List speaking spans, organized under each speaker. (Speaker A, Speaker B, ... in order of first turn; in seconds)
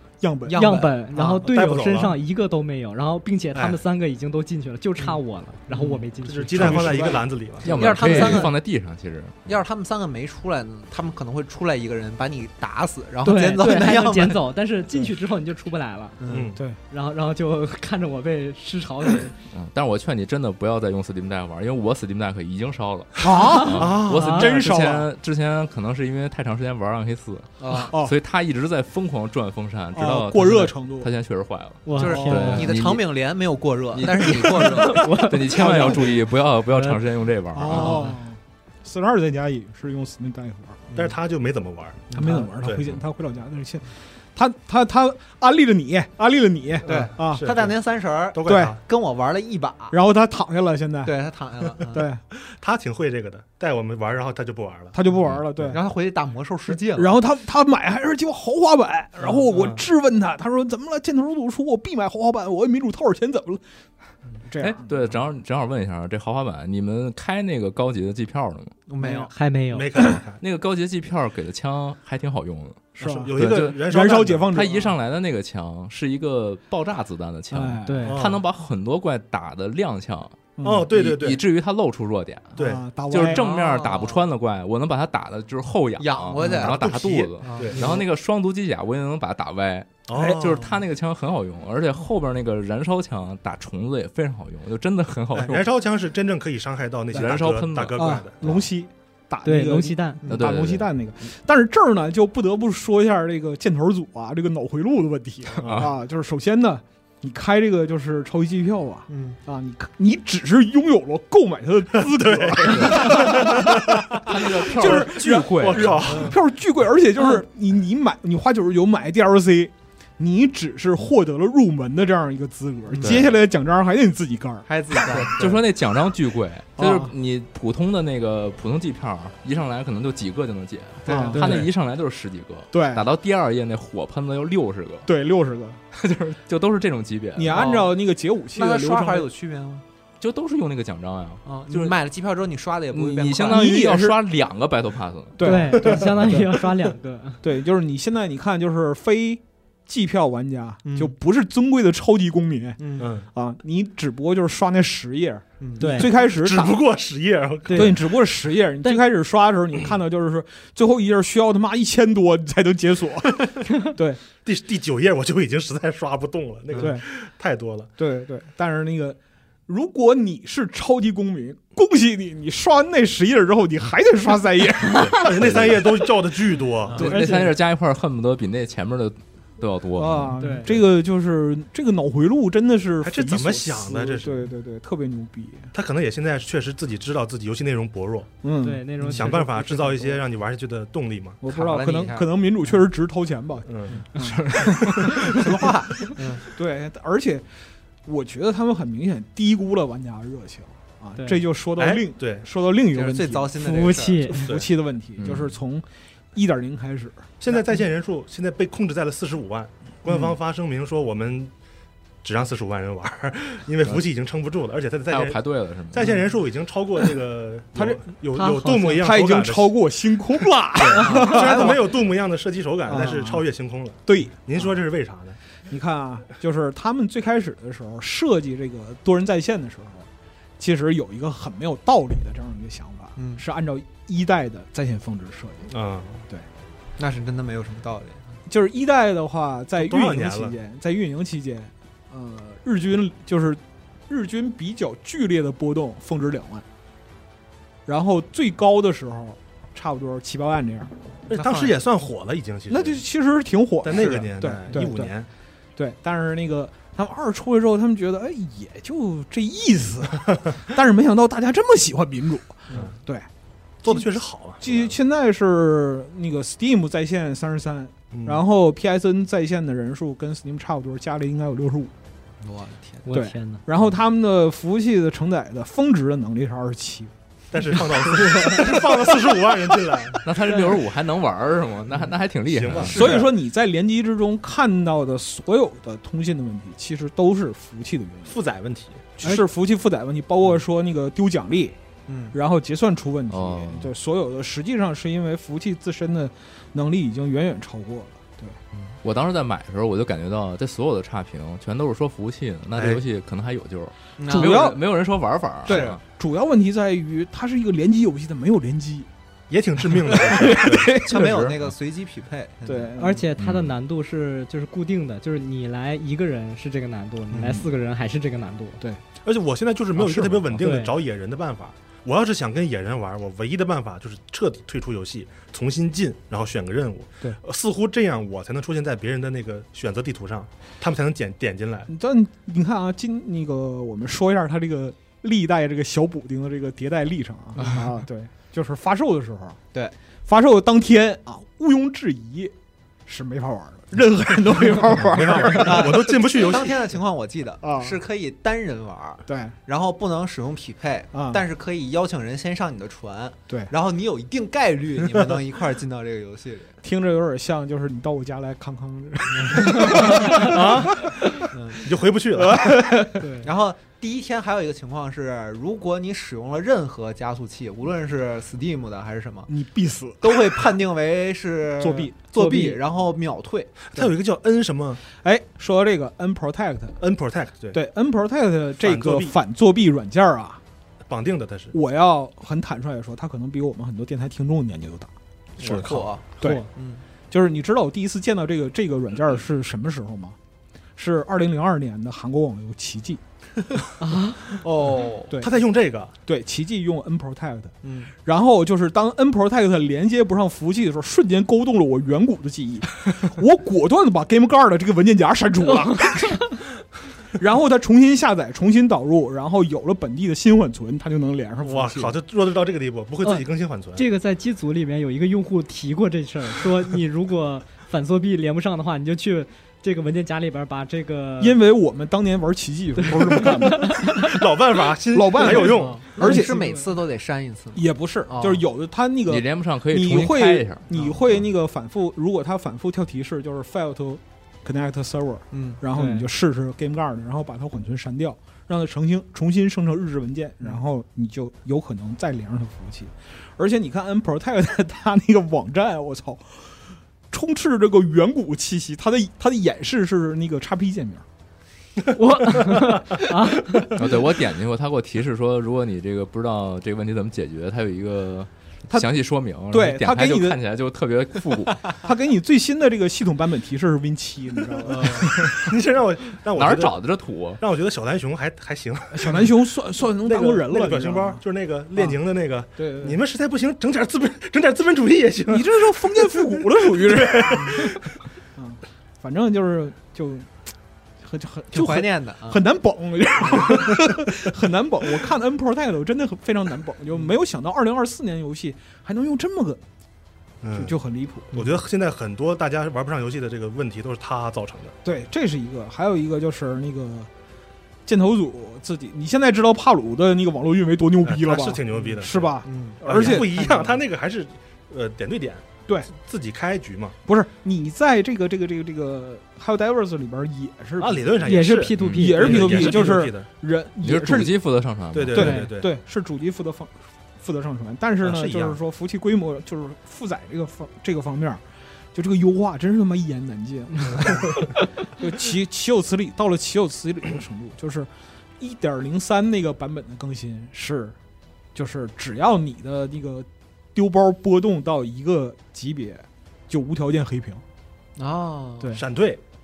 Speaker A: 0.2-0.8, 6.5-7.2, 23.2-25.1, 27.9-28.1, 29.9-31.1, 32.1-32.7, 37.5-40.8, 42.1-47.5, 48.5-48.8, 49.9-51.1, 51.9-52.2, 54.9-55.8, 56.7-63.6, 64.5-65.0, 73.0-74.9, 77.5-78.1, 80.6-80.9, 82.6-83.4, 86.4-86.7, 90.1-90.4, 98.0-125.1, 126.8-127.1, 131.1-131.7, 132.7-133.1, 135.1-135.8, 137.3-139.3, 143.4-144.2, 145.4-146.6, 147.4-156.8, 157.7-164.2, 166.8-167.1, 168.0-176.1, 176.9-177.6, 179.9-185.7, 188.4-189.5, 191.4-195.4, 196.4-197.5, 198.1-203.6, 204.3-207.3, 217.7-218.1, 218.9-221.9, 222.9-223.4, 224.1-224.3, 225.7-230.1, 230.6-235.7, 238.4-246.6, 247.9-250.9, 252.7-255.1, 255.8-263.3, 263.8-271.9, 273.1-277.1, 278.5-278.8, 282.9-288.4, 289.2-291.8, 292.3-298.6, 304.3-304.8, 305.7-309.1, 309.9-311.3, 312.6-313.3, 320.0-320.5, 331.9-339.6, 340.3-342.5, 343.1-346.2, 347.6-347.9, 349.3-349.6, 351.1-351.4, 356.8-361.4, 362.3-363.3, 369.5-370.6, 371.8-372.8, 375.1-377.0, 377.7-380.6, 381.7-385.1, 387.3-390.4, 391.0-393.2, 396.3-406.6, 407.4-412.2, 421.4-424.1, 425.1-426.7, 427.7-446.8, 447.3-451.3, 459.7-460.6, 462.0-465.6, 469.1-471.4, 472.8-473.2, 475.5-478.0, 478.6-480.5, 481.2-489.8, 490.7-491.6, 495.0-497.3, 498.1-503.6, 507.3-511.6, 512.1-514.6, 515.3-531.1, 531.7-537.6
Speaker B: 0.5-1.4, 5.7-6.0, 7.7-8.6, 9.5-14.4, 16.2-16.5, 27.6-27.9, 31.9-36.2, 37.7-38.2, 40.9-41.2, 42.1-42.5, 46.9-50.0, 51.0-52.1, 55.6-57.2, 68.9-69.3, 83.3-84.2, 86.0-88.0, 109.1-109.4, 116.1-116.3, 122.9-123.2, 124.7-125.6, 131.1-131.7, 137.5-137.9, 138.5-139.8, 141.4-143.7, 150.8-151.1, 152.8-153.1, 155.6-156.1, 191.4-192.4, 195.3-196.4, 202.9-204.4, 233.2-233.4, 237.0-238.3, 251.3-251.8, 272.4-273.1, 292.1-292.4, 304.2-304.7, 305.7-306.0, 310.4-313.2, 345.5-356.8, 359.4-359.9, 361.5-361.9, 363.4-369.5, 370.2-373.9, 385.6-387.0, 394.6-395.3, 397.8-398.1, 425.6-428.6, 435.5-435.8, 464.9-465.3, 477.5-477.8, 481.7-482.6, 501.9-504.0, 538.2-539.0
Speaker C: 0.5-7.2, 13.2-16.2, 16.9-19.4, 23.5-24.5, 31.9-32.7, 34.7-36.0, 36.7-37.0, 69.3-69.9, 77.8-78.2, 99.5-100.3, 145.4-147.4, 155.8-156.1, 157.7-157.9, 180.4-180.7, 188.6-190.2, 201.2-201.4, 203.6-204.5, 218.4-219.0, 221.0-221.4, 273.1-273.6, 313.0-318.8, 320.6-321.0, 363.1-363.5, 394.0-394.6, 405.7-406.5, 413.2-421.6, 423.0-424.4, 426.3-426.8, 435.9-436.3, 452.1-453.9, 511.4-513.1, 515.4-515.7
Speaker D: 1.4-2.2, 3.5-3.8, 6.2-7.7, 16.3-16.6, 23.8-24.4, 41.0-43.0, 46.9-47.8, 48.3-48.8, 52.4-55.0, 59.5-59.8, 69.7-70.4, 73.0-74.5, 78.1-78.4, 80.6-81.4, 82.6-82.8, 87.6-87.9, 90.1-90.7, 95.3-98.5, 112.0-116.4, 153.0-153.3, 156.2-158.1, 164.4-167.9, 175.1-177.1, 183.0-184.5, 185.7-188.3, 189.0-191.4, 193.7-194.0, 201.8-202.4, 207.4-211.5, 212.2-219.8, 220.8-225.4, 235.7-236.2, 239.8-240.6, 251.3-253.0, 253.8-255.3, 263.8-264.9, 268.1-268.4, 277.5-280.3, 282.5-283.3, 288.3-289.1, 302.7-303.0, 309.5-310.9, 319.2-331.9, 345.1-346.9, 360.1-361.1, 361.8-362.8, 373.9-375.0, 377.0-377.8, 378.8-379.4, 381.1-381.7, 385.6-386.1, 395.4-396.1, 411.6-414.1, 424.0-426.1, 465.0-467.0, 467.6-469.5, 470.2-478.0, 490.6-490.9, 491.5-494.9, 501.2-507.2, 511.0-513.5, 515.1-515.9, 518.2-518.8, 524.2-524.5, 539.0-539.4
Speaker E: 7.6-9.6, 19.5-33.1, 33.9-38.1, 64.6-68.8, 70.4-73.9, 74.5-82.6, 83.1-95.7, 97.1-98.7, 100.3-100.9, 105.6-105.9, 112.7-116.1, 123.0-123.4, 125.0-135.1, 135.9-137.7, 140.2-141.9, 142.9-145.5, 174.9-175.8, 176.9-180.3, 194.2-195.1, 205.2-205.5, 215.1-216.1, 280.2-283.1, 293.3-293.9, 298.9-306.0, 311.0-311.7, 313.4-313.7, 429.3-431.4, 453.9-461.9, 466.5-467.6, 512.0-512.4, 514.0-515.6